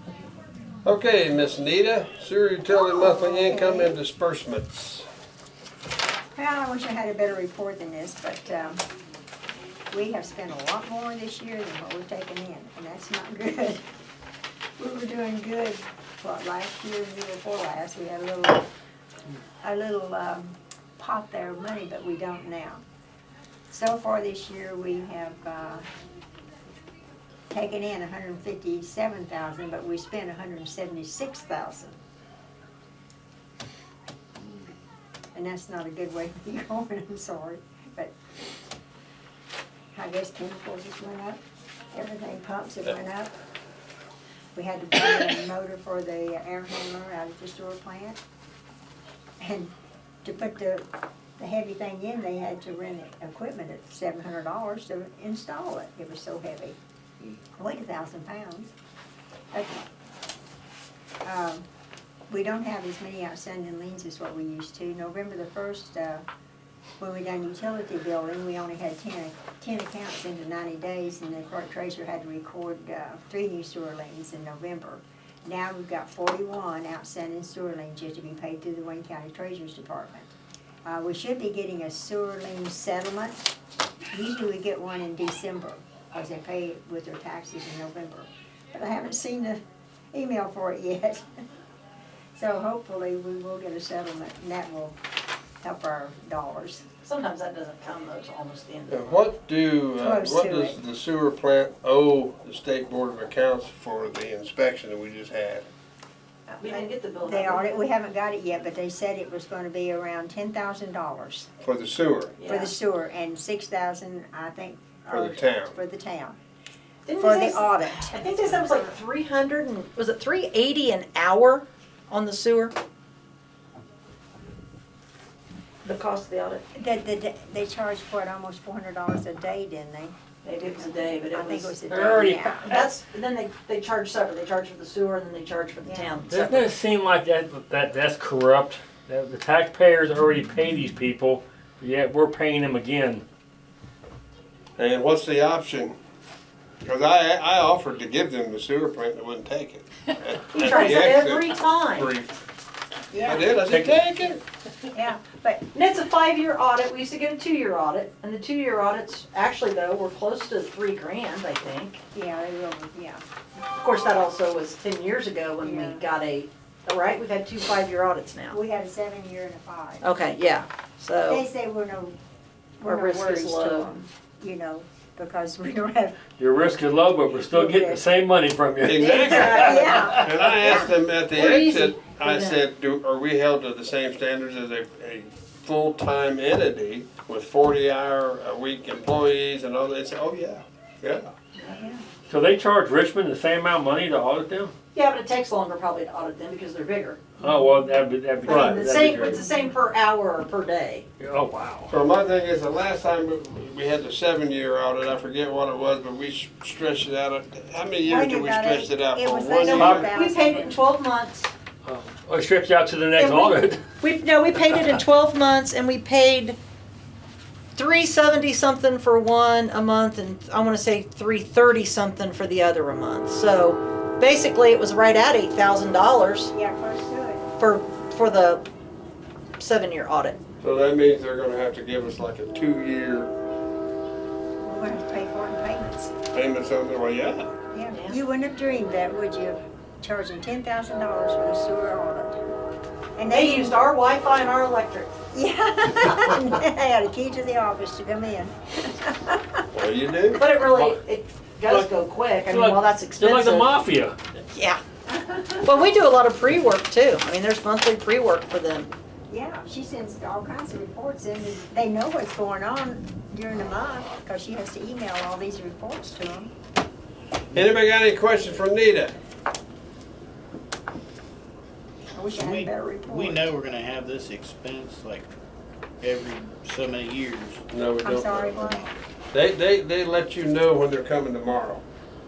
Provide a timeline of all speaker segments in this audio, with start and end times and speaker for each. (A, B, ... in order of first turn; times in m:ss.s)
0:00.8-0:05.1 A
0:02.8-0:03.9 B
0:06.4-0:08.8 B
0:09.9-0:13.8 B
0:14.8-0:18.7 B
0:19.6-0:22.8 B
0:23.7-0:25.8 B
0:27.5-0:32.0 B
0:35.4-0:38.1 B
0:39.9-0:41.4 B
0:41.9-0:43.3 B
0:44.6-0:48.2 B
0:49.4-0:49.7 B
0:50.2-0:50.8 B
0:51.4-0:58.7 B
0:59.5-0:59.9 B
1:01.2-1:01.6 B
1:02.3-1:06.2 B
1:07.0-1:20.3 B
1:20.9-1:23.5 B
1:24.1-1:29.6 B
1:30.1-1:31.3 B
1:32.3-1:35.0 B
1:35.6-1:36.8 B
1:37.0-1:39.2 C
1:38.9-1:45.7 A
1:40.0-1:40.8 B
1:46.5-1:51.5 B
1:46.6-1:47.8 C
1:51.6-1:52.3 A
1:52.4-1:52.8 C
1:52.5-1:56.4 B
1:55.1-1:55.8 A
1:57.1-2:02.8 C
1:57.2-1:58.2 B
2:05.8-2:06.6 C
2:06.7-2:12.8 B
2:10.4-2:16.7 C
2:11.9-2:12.9 D
2:15.8-2:16.2 B
2:16.3-2:23.2 D
2:24.8-2:26.0 A
2:26.8-2:32.3 A
2:30.5-2:32.1 C
2:33.1-2:33.5 B
2:33.2-2:34.4 A
2:33.7-2:33.9 D
2:34.9-2:35.6 B
2:35.7-2:42.0 C
2:42.1-2:43.2 B
2:43.8-2:48.6 C
2:45.6-2:46.0 B
2:48.5-2:50.1 B
2:50.0-2:51.4 C
2:51.3-2:52.2 B
2:52.8-2:56.2 B
2:52.8-2:54.0 C
2:56.4-3:00.3 D
2:57.4-2:58.0 B
2:58.8-3:11.3 A
2:59.0-3:00.0 C
2:59.2-3:00.9 B
3:01.3-3:02.6 C
3:11.6-3:12.0 C
3:12.3-3:14.7 D
3:14.9-3:17.4 C
3:17.4-3:19.4 D
3:18.4-3:21.0 C
3:18.5-3:18.8 A
3:21.2-3:21.9 D
3:21.9-3:30.1 A
3:28.1-3:30.8 B
3:29.7-3:31.5 C
3:29.8-3:30.1 D
3:31.8-3:33.8 D
3:33.2-3:36.6 C
3:37.8-3:46.5 C
3:46.5-3:47.5 B
3:47.6-3:48.6 C
3:49.6-3:50.4 C
3:50.6-3:53.3 A
3:54.6-3:56.1 B
3:56.3-3:57.5 A
3:57.7-4:02.4 B
3:57.9-3:58.2 C
4:03.2-4:03.8 B
4:03.3-4:05.1 C
4:05.3-4:09.6 B
4:09.7-4:10.4 A
4:10.4-4:13.7 C
4:10.6-4:11.0 D
4:11.7-4:11.9 D
4:12.4-4:14.2 D
4:14.5-4:14.8 C
4:15.3-4:18.9 C
4:19.3-4:26.5 B
4:27.5-4:29.1 A
4:32.1-4:33.5 B
4:32.3-4:35.3 E
4:36.0-4:37.6 E
4:37.7-4:41.8 A
4:38.0-4:38.8 B